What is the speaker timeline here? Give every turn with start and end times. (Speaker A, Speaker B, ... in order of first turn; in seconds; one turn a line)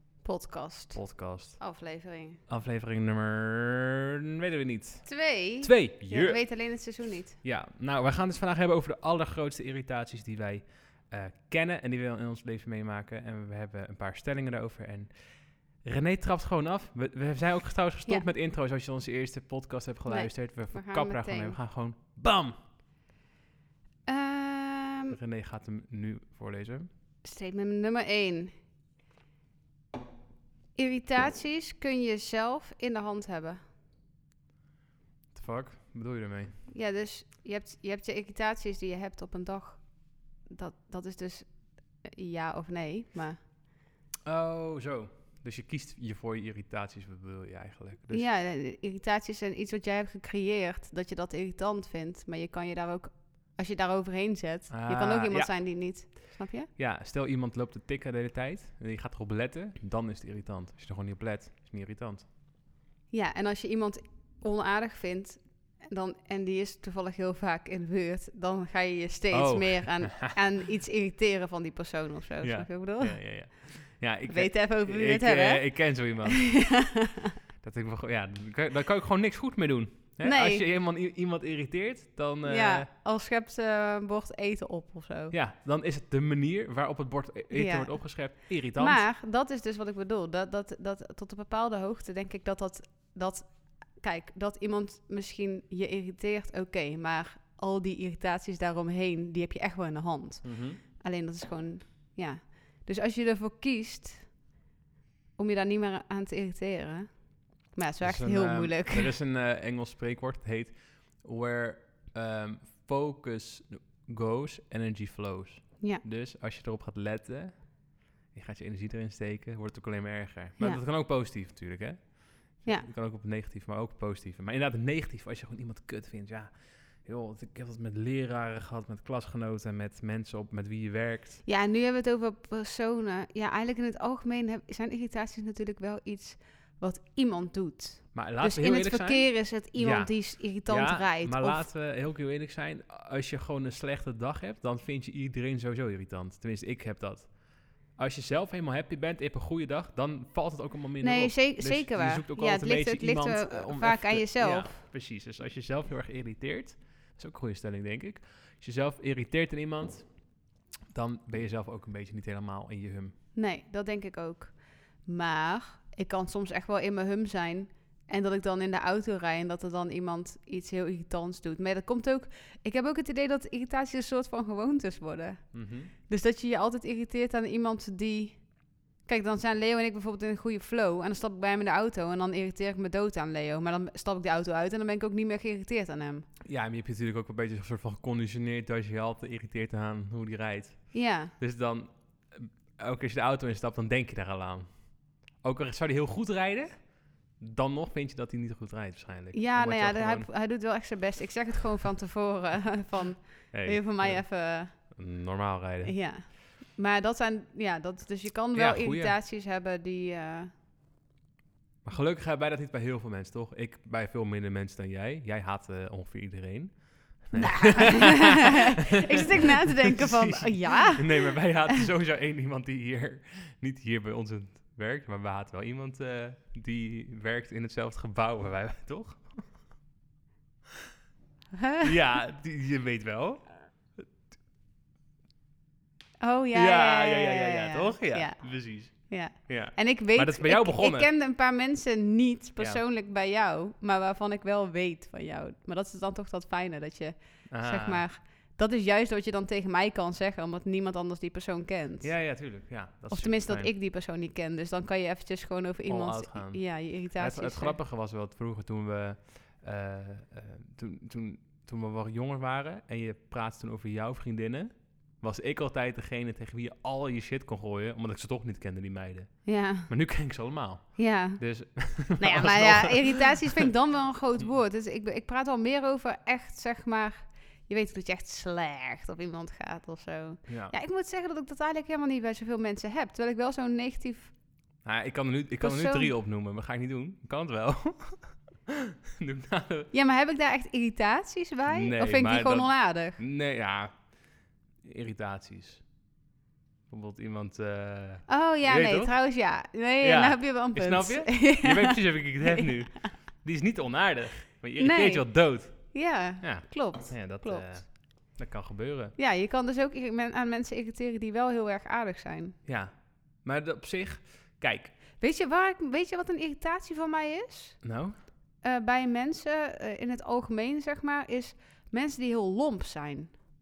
Speaker A: 0.2-1.0
Speaker B: 0.9-1.6
Speaker A: 1.6-2.4
Speaker B: 2.5-5.1
Speaker A: 5.0-7.4
Speaker B: 5.6-6.4
Speaker B: 7.4-15.1
Speaker B: 15.8-22.6
Speaker A: 20.1-21.6
Speaker A: 24.1-25.2
Speaker B: 25.1-26.9
Speaker A: 27.2-28.6
Speaker A: 30.8-33.6
Speaker B: 35.3-36.6
Speaker A: 36.7-39.9
Speaker A: 40.4-43.4
Speaker B: 44.3-48.3
Speaker A: 48.1-56.7
Speaker B: 54.7-55.5
Speaker B: 56.8-62.3
Speaker A: 63.1-73.5
Speaker B: 69.3-70.4
Speaker B: 72.4-76.5
Speaker A: 74.3-77.4
Speaker B: 77.6-82.9
Speaker A: 80.2-80.6
Speaker A: 82.5-85.3
Speaker B: 85.3-89.0
Speaker A: 87.5-104.3
Speaker B: 100.4-100.8
Speaker A: 105.4-109.2
Speaker B: 108.0-131.4
Speaker A: 131.4-141.7
Speaker B: 138.1-147.4
Speaker B: 148.0-160.2
Speaker A: 151.0-154.8
Speaker B: 160.9-163.2
Speaker A: 163.3-178.5
Speaker B: 175.5-175.9
Speaker A: 179.0-186.3
Speaker B: 186.4-200.3
Speaker A: 190.9-191.3
Speaker A: 199.3-205.0
Speaker B: 203.5-205.9
Speaker A: 205.8-210.5
Speaker B: 208.5-209.2
Speaker B: 211.8-229.5
Speaker A: 217.4-221.7
Speaker A: 231.5-231.9
Speaker B: 231.8-234.0
Speaker A: 236.2-252.2
Speaker B: 236.5-241.1
Speaker B: 247.5-248.1
Speaker B: 252.0-253.7
Speaker A: 253.1-257.8
Speaker B: 255.9-273.7
Speaker A: 269.4-269.9
Speaker A: 271.0-284.3
Speaker B: 280.5-280.7
Speaker B: 284.8-289.9
Speaker A: 285.6-286.1
Speaker A: 289.9-293.2
Speaker B: 291.7-294.2
Speaker B: 294.8-295.9
Speaker B: 296.9-299.1
Speaker A: 298.3-303.1
Speaker B: 300.0-309.2
Speaker A: 304.8-307.8
Speaker A: 309.2-312.6
Speaker B: 312.6-314.9
Speaker A: 315.2-317.8
Speaker B: 317.8-318.2
Speaker A: 318.6-323.3